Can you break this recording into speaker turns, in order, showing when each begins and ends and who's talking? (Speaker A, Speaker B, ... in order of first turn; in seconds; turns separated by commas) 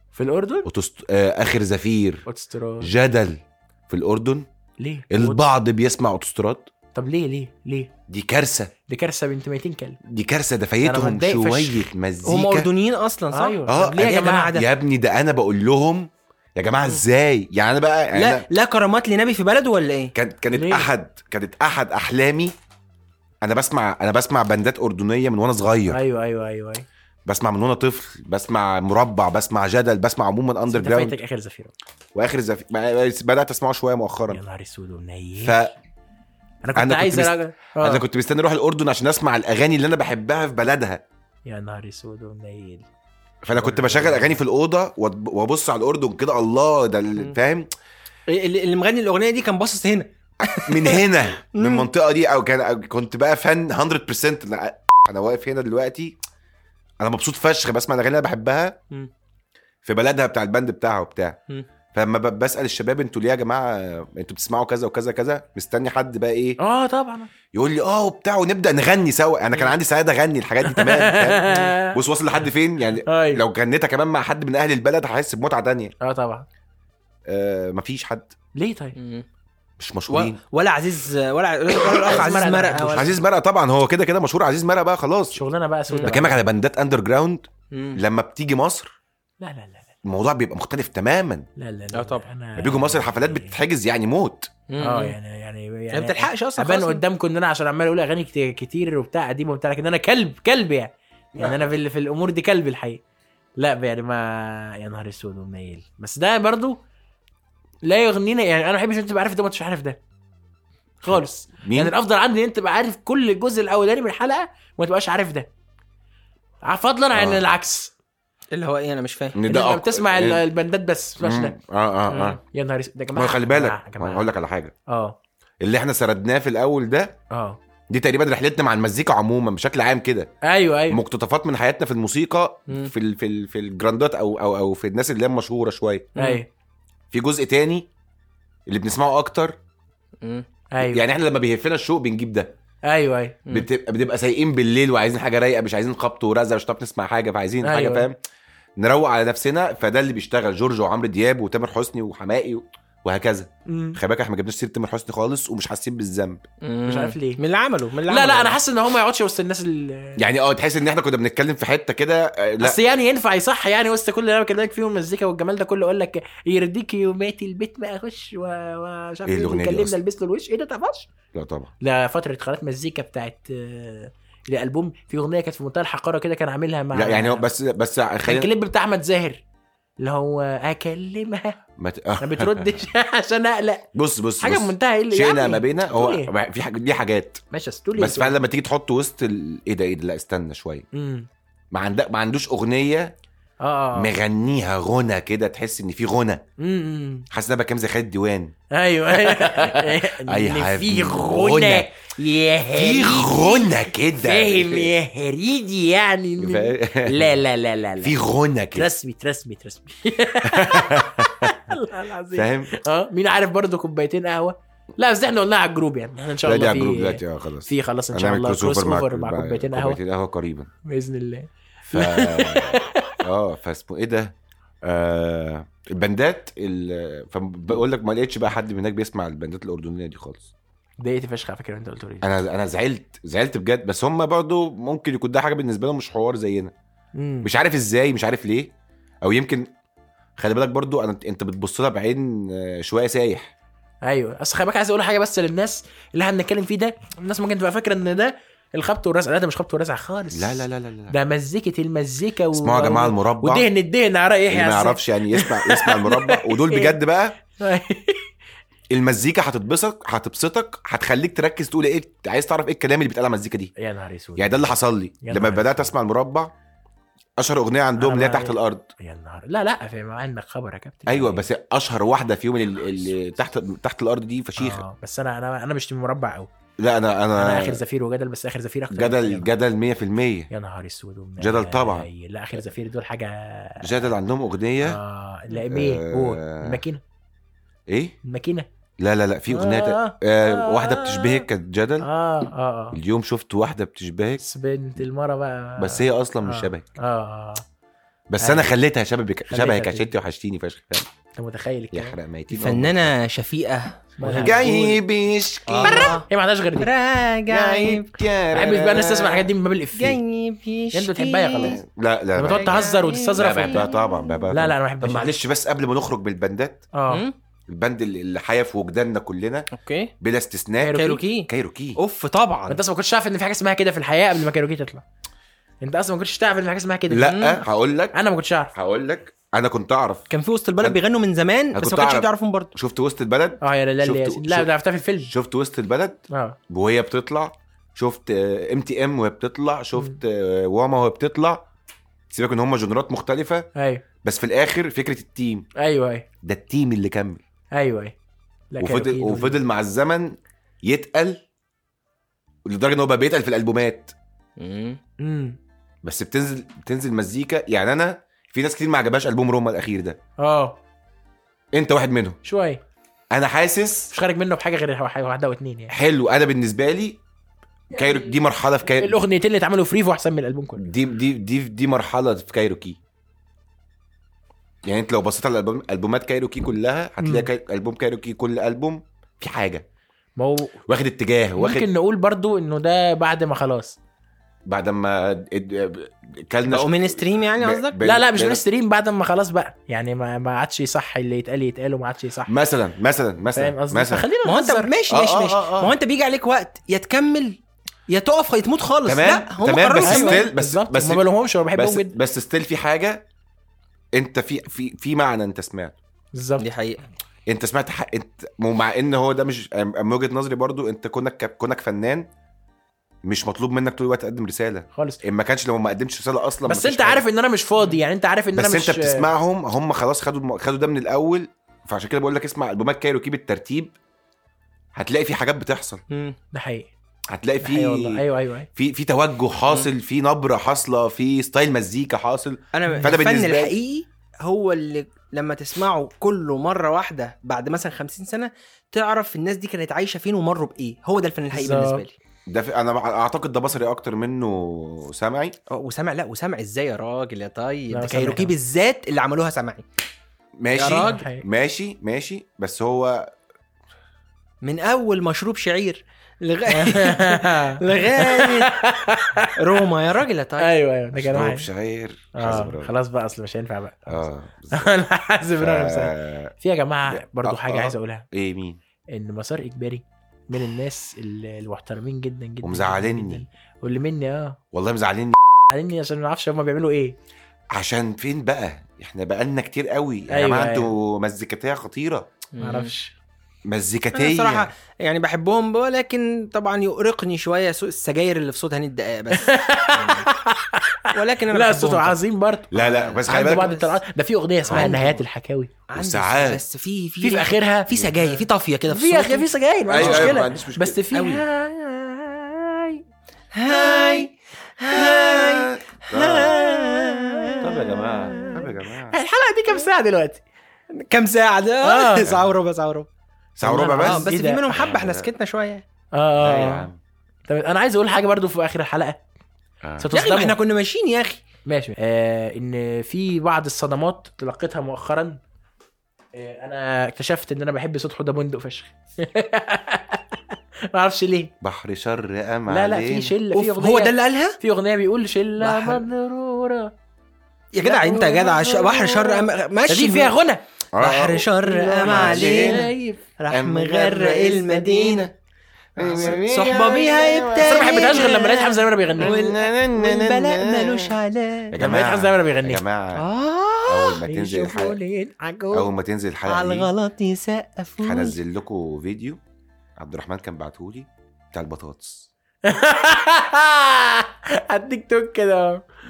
Speaker A: 0.1-0.7, Speaker B: 0.6-2.2, Speaker A: 2.3-2.9, Speaker B: 2.8-4.5, Speaker A: 4.8-5.4, Speaker B: 5.1-6.7, Speaker A: 6.9-7.9, Speaker B: 8.1-8.7, Speaker A: 8.9-10.0, Speaker B: 10.0-12.7, Speaker A: 10.8-11.9, Speaker C: 12.2-14.6, Speaker A: 13.3-14.6, Speaker B: 13.7-18.4, Speaker C: 18.1-20.1, Speaker B: 20.1-22.5, Speaker A: 20.5-20.9, Speaker B: 23.4-26.0, Speaker A: 25.9-26.9, Speaker B: 27.2-31.1, Speaker A: 30.7-31.7, Speaker B: 32.1-34.4, Speaker A: 34.3-35.6, Speaker B: 35.4-35.7, Speaker A: 36.6-38.0, Speaker B: 36.7-41.0, Speaker A: 41.5-42.8, Speaker B: 43.4-47.7, Speaker A: 43.5-44.4, Speaker C: 48.3-51.9, Speaker B: 50.5-56.2, Speaker B: 57.0-58.8, Speaker B: 59.8-61.4, Speaker B: 61.9-66.6, Speaker A: 66.6-67.3, Speaker B: 67.5-75.9, Speaker A: 70.7-72.0, Speaker A: 73.1-73.4, Speaker A: 76.0-76.5, Speaker B: 77.3-78.3, Speaker A: 78.5-79.0, Speaker C: 79.0-79.2, Speaker B: 79.8-80.4, Speaker C: 80.1-83.1, Speaker A: 81.8-83.1, Speaker B: 82.9-85.4, Speaker A: 85.3-86.4, Speaker C: 85.9-86.2, Speaker B: 86.0-88.9, Speaker C: 87.7-88.0, Speaker A: 89.4-89.9, Speaker B: 90.0-91.5, Speaker A: 91.6-93.5, Speaker C: 91.9-92.2, Speaker B: 92.6-94.5, Speaker C: 94.7-95.2, Speaker A: 94.8-103.0, Speaker C: 95.9-97.0, Speaker A: 103.6-106.8, Speaker A: 107.8-110.0, Speaker A: 111.0-115.5, Speaker B: 111.1-111.9, Speaker A: 116.6-117.9, Speaker B: 117.1-117.4, Speaker C: 118.5-119.4, Speaker B: 119.3-120.4, Speaker A: 119.5-121.5, Speaker B: 121.2-122.4, Speaker C: 122.1-122.4, Speaker A: 122.4-124.3, Speaker B: 123.1-124.7, Speaker A: 124.9-125.2, Speaker B: 125.6-127.2, Speaker A: 127.3-127.6, Speaker B: 127.9-130.3, Speaker A: 130.4-131.0, Speaker B: 130.9-136.1, Speaker C: 136.2-136.4, Speaker A: 136.2-136.5, Speaker B: 137.1-137.9, Speaker B: 138.7-139.5, Speaker A: 140.7-141.0, Speaker B: 140.8-142.5, Speaker A: 142.8-143.4, Speaker B: 143.5-148.2, Speaker A: 147.6-148.1, Speaker B: 148.8-156.4, Speaker A: 153.7-154.0, Speaker C: 156.6-158.6, Speaker A: 156.9-157.4, Speaker A: 158.1-160.2, Speaker B: 160.2-162.8, Speaker A: 162.6-171.1, Speaker B: 169.3-169.9, Speaker B: 171.3-171.7, Speaker A: 171.8-177.4, Speaker B: 176.9-178.5, Speaker A: 178.2-179.4, Speaker A: 180.0-181.6, Speaker B: 181.8-182.8, Speaker A: 182.2-183.8, Speaker B: 183.9-187.4, Speaker A: 184.4-186.3, Speaker A: 187.5-188.3, Speaker B: 187.9-190.8, Speaker A: 190.9-191.3, Speaker B: 191.7-193.1, Speaker A: 193.6-194.1, Speaker B: 193.9-196.4, Speaker A: 196.6-197.2, Speaker B: 197.3-198.5, Speaker A: 198.7-208.2, Speaker B: 199.1-201.9, Speaker B: 202.7-204.9, Speaker B: 206.4-207.3, Speaker B: 208.0-208.9, Speaker A: 208.7-220.0, Speaker B: 210.4-211.5, Speaker B: 212.3-212.7, Speaker B: 216.4-220.7, Speaker A: 220.8-223.2, Speaker B: 221.9-230.5, Speaker A: 231.0-232.3, Speaker B: 232.2-236.7, Speaker A: 237.1-237.5, Speaker B: 237.4-239.7, Speaker B: 240.4-243.5, Speaker A: 244.0-256.9, Speaker B: 250.3-251.1, Speaker B: 252.5-253.7, Speaker B: 254.5-257.4, Speaker A: 257.6-258.3, Speaker B: 258.9-263.7, Speaker A: 263.8-264.7, Speaker B: 264.4-266.5, Speaker A: 265.2-265.9, Speaker B: 267.4-268.9, Speaker A: 268.0-271.4, Speaker B: 271.1-274.8, Speaker A: 274.6-276.5, Speaker B: 276.8-277.8, Speaker A: 277.4-279.5, Speaker B: 278.9-280.5, Speaker A: 280.5-284.1, Speaker B: 281.4-282.1, Speaker B: 283.8-285.0, Speaker A: 284.8-287.0, Speaker B: 285.6-286.8, Speaker B: 287.9-288.1, Speaker A: 288.2-288.6, Speaker B: 289.0-292.1, Speaker A: 289.5-291.5, Speaker A: 292.0-293.0, Speaker B: 292.9-294.4, Speaker A: 294.4-297.6, Speaker B: 295.8-296.9, Speaker B: 298.3-301.1, Speaker A: 298.4-298.7, Speaker A: 299.5-300.1, Speaker A: 301.4-302.1, Speaker B: 301.9-303.1, Speaker C: 302.5-305.0, Speaker A: 304.2-304.7, Speaker B: 304.3-306.1, Speaker A: 305.7-306.9, Speaker C: 305.7-306.2, Speaker C: 306.8-308.1, Speaker B: 307.5-309.5, Speaker A: 308.5-310.2, Speaker C: 310.0-311.8, Speaker A: 310.9-311.8, Speaker B: 311.6-316.9, Speaker A: 312.4-313.9, Speaker C: 312.4-314.4, Speaker A: 314.5-315.3, Speaker A: 316.9-317.2, Speaker C: 317.1-317.3, Speaker B: 317.7-319.7, Speaker C: 319.7-320.1, Speaker B: 320.2-322.0, Speaker A: 320.8-321.2, Speaker C: 320.9-322.8, Speaker A: 322.7-325.0, Speaker A: 325.8-327.6, Speaker B: 327.1-328.1, Speaker C: 327.3-327.6, Speaker A: 328.1-328.7, Speaker B: 328.7-330.3, Speaker C: 330.3-332.7, Speaker B: 331.7-334.7, Speaker A: 333.6-335.3, Speaker B: 335.3-341.6, Speaker A: 336.3-336.6, Speaker B: 342.3-343.7, Speaker A: 343.8-344.0, Speaker B: 344.2-345.7, Speaker A: 345.8-346.2, Speaker B: 346.4-347.4, Speaker A: 347.7-348.1, Speaker A: 348.7-349.6, Speaker B: 348.8-351.4, Speaker B: 352.6-354.1, Speaker C: 354.6-355.0, Speaker A: 355.2-355.6, Speaker B: 356.0-360.2, Speaker A: 360.4-360.8, Speaker B: 361.7-362.4, Speaker A: 362.4-362.8, Speaker B: 363.3-364.1, Speaker A: 364.1-365.9, Speaker B: 365.9-367.2, Speaker B: 367.9-369.2, Speaker A: 368.9-370.9, Speaker B: 370.8-373.0, Speaker B: 374.8-379.8, Speaker A: 377.2-377.5, Speaker A: 380.4-380.8, Speaker B: 380.9-381.9, Speaker A: 381.6-384.0, Speaker B: 384.7-388.6, Speaker C: 386.7-388.0, Speaker A: 388.0-392.5, Speaker B: 392.5-394.2, Speaker A: 393.5-394.9, Speaker C: 394.4-400.4, Speaker B: 395.1-395.9, Speaker B: 399.1-403.2, Speaker A: 400.0-402.1, Speaker B: 404.1-405.9, Speaker A: 406.3-406.6, Speaker C: 406.6-407.0, Speaker B: 407.5-412.3, Speaker B: 413.2-417.2, Speaker A: 414.9-415.2, Speaker A: 416.6-419.3, Speaker B: 418.5-423.9, Speaker B: 424.9-426.0, Speaker C: 426.1-426.4, Speaker A: 426.5-426.9, Speaker B: 427.3-428.2, Speaker A: 427.6-428.7, Speaker B: 428.7-433.7, Speaker C: 432.7-442.1, Speaker A: 441.5-442.0, Speaker B: 442.5-445.6, Speaker C: 445.7-449.8, Speaker A: 447.9-448.5, Speaker B: 450.6-453.3, Speaker C: 450.7-451.2, Speaker A: 450.9-451.4, Speaker C: 454.6-458.7, Speaker A: 456.7-459.5, Speaker C: 459.6-460.7, Speaker A: 460.6-461.7, Speaker B: 461.1-462.9, Speaker A: 462.3-468.2, Speaker B: 464.1-464.9, Speaker B: 465.6-466.5, Speaker B: 467.1-468.8, Speaker A: 469.1-474.6, Speaker B: 472.6-473.4, Speaker B: 474.7-475.4, Speaker A: 475.7-477.1, Speaker B: 477.7-482.3, Speaker A: 480.3-480.9, Speaker C: 482.5-482.9, Speaker A: 482.6-483.1, Speaker B: 483.7-484.7, Speaker C: 484.1-490.2, Speaker A: 489.3-495.8, Speaker C: 491.1-492.2, Speaker B: 492.7-493.7, Speaker C: 492.7-493.9, Speaker C: 494.7-495.2, Speaker B: 494.7-495.0, Speaker C: 495.9-500.5, Speaker B: 495.9-496.6, Speaker A: 497.2-497.9, Speaker B: 497.9-498.3, Speaker A: 498.9-503.0, Speaker B: 499.9-501.0, Speaker C: 501.1-501.4, Speaker C: 503.5-508.6, Speaker B: 503.9-504.2, Speaker B: 504.9-506.6, Speaker A: 506.7-507.7, Speaker B: 507.6-509.1, Speaker A: 508.3-510.4, Speaker C: 510.9-513.1, Speaker A: 511.8-512.3, Speaker B: 512.2-512.5, Speaker B: 513.6-515.3, Speaker A: 513.6-514.7, Speaker C: 514.0-515.8, Speaker A: 516.1-516.9, Speaker B: 516.4-517.0, Speaker A: 517.5-519.2, Speaker B: 519.8-520.1, Speaker A: 520.0-520.5, Speaker C: 520.1-521.4, Speaker A: 521.6-525.4, Speaker A: 526.3-530.4, Speaker A: 530.9-531.5, Speaker B: 531.6-533.3, Speaker A: 532.7-536.9, Speaker C: 533.5-534.6, Speaker C: 535.6-536.0, Speaker C: 537.7-540.3, Speaker A: 537.8-540.6, Speaker B: 540.9-542.9, Speaker C: 541.0-542.9, Speaker A: 542.0-543.2, Speaker C: 543.4-545.3, Speaker B: 543.5-545.3, Speaker B: 546.0-548.5, Speaker C: 546.0-551.9, Speaker A: 547.6-549.4, Speaker B: 549.2-551.1, Speaker B: 551.7-553.2, Speaker A: 551.8-552.8, Speaker C: 553.1-554.2, Speaker B: 553.9-555.0, Speaker A: 554.2-555.9, Speaker B: 555.7-556.9, Speaker C: 556.5-558.3, Speaker B: 558.0-559.4, Speaker B: 560.0-562.3, Speaker A: 562.6-565.8